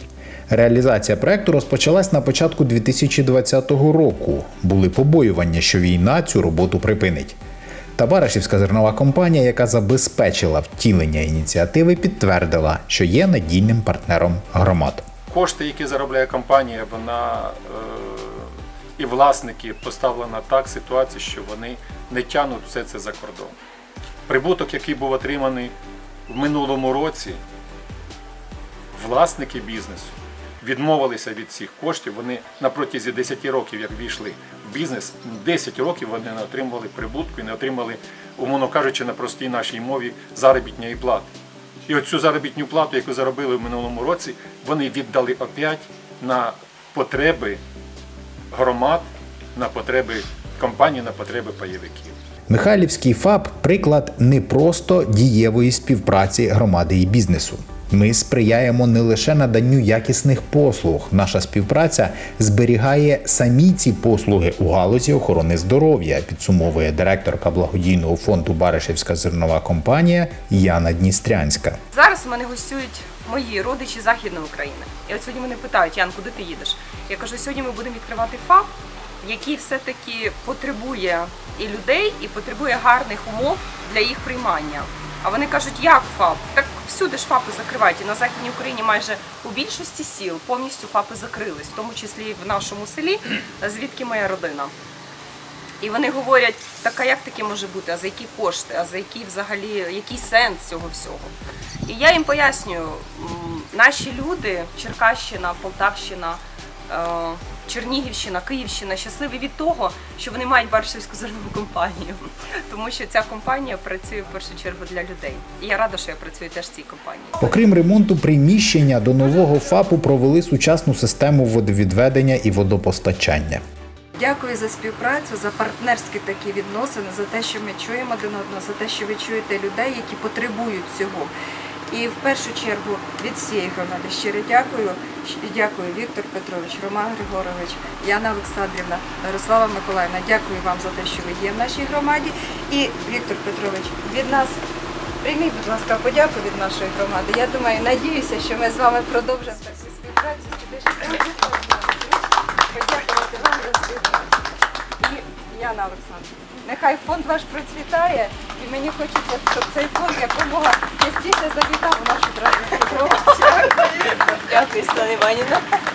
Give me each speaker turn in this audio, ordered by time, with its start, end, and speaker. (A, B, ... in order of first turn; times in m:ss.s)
0:00.5-0:07.4 A
0:08.0-0:15.1 A
0:15.3-0:23.6 B
0:24.3-0:25.7 B
0:26.3-0:27.4 B
0:28.9-0:41.3 B
0:41.9-0:47.6 B
0:48.5-0:52.2 B
0:52.5-1:11.8 A
1:11.9-1:34.7 C
1:35.8-1:41.3 C
1:41.8-1:57.4 C
1:57.4-2:03.6 A
2:04.1-2:11.3 D
2:11.9-2:24.6 D
2:25.2-2:34.4 D
2:35.0-2:43.8 D
2:43.4-2:45.8 C